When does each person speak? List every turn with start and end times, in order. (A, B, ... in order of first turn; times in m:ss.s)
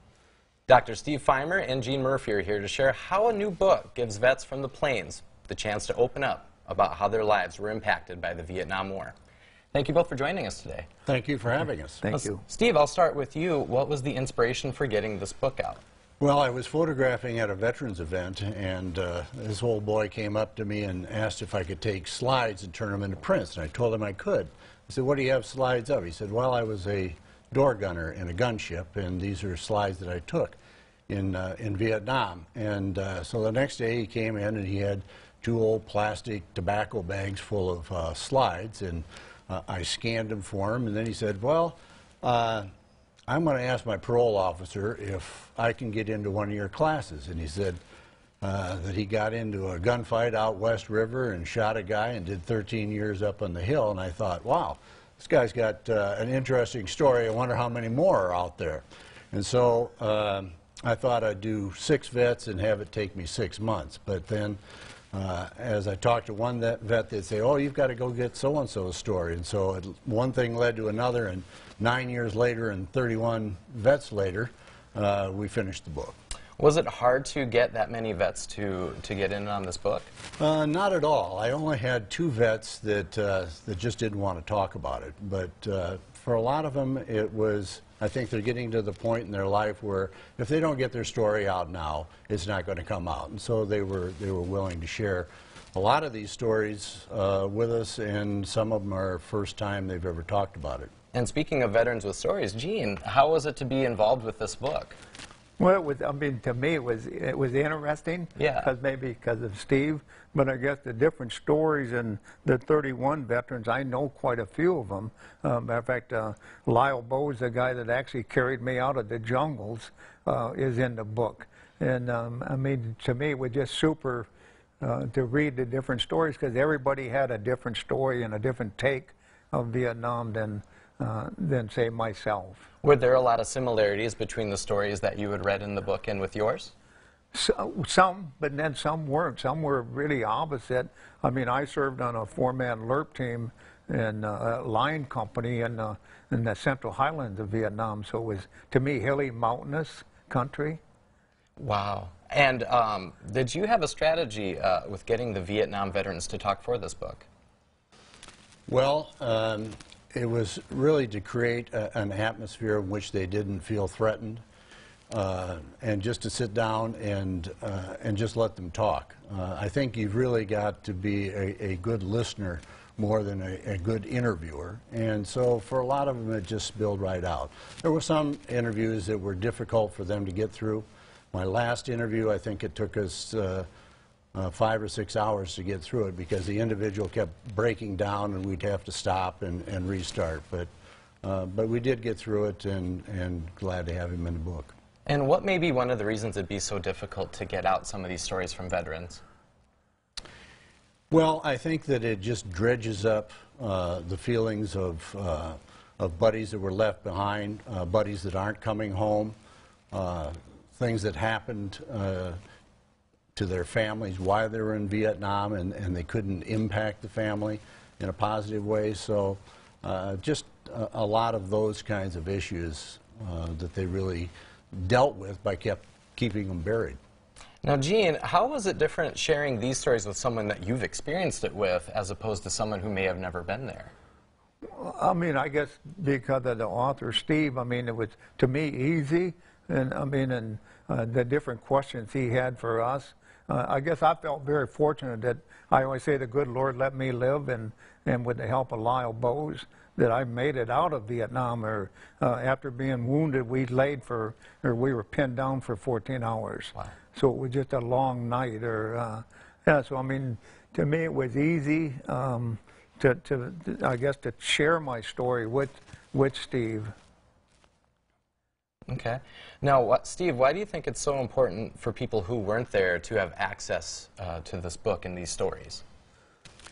0:00.7-0:09.1 A
0:09.7-0:10.9 A
0:11.1-0:12.0 B
0:12.0-0:12.4 C
0:12.1-0:15.8 A
0:16.2-0:30.6 B
0:31.1-0:42.7 B
0:43.3-0:47.8 B
0:48.4-1:04.6 B
1:05.1-1:16.2 B
1:16.6-1:20.1 A
1:20.4-1:40.9 B
1:41.1-1:45.0 A
1:45.6-2:04.3 C
1:48.4-1:48.7 A
2:04.8-2:12.6 C
2:12.8-2:16.7 A
2:17.3-2:30.8 C
2:31.6-2:37.2 A
2:38.7-2:44.4 B
2:45.1-3:03.7 B
3:04.3-3:10.7 B
3:11.2-3:14.7 B
3:15.1-3:19.2 A
3:21.1-3:29.4 B
3:29.9-3:32.4 B
3:33.4-3:47.0 B
3:47.6-3:53.9 A
3:54.7-4:26.9 C
4:28.9-4:35.8 A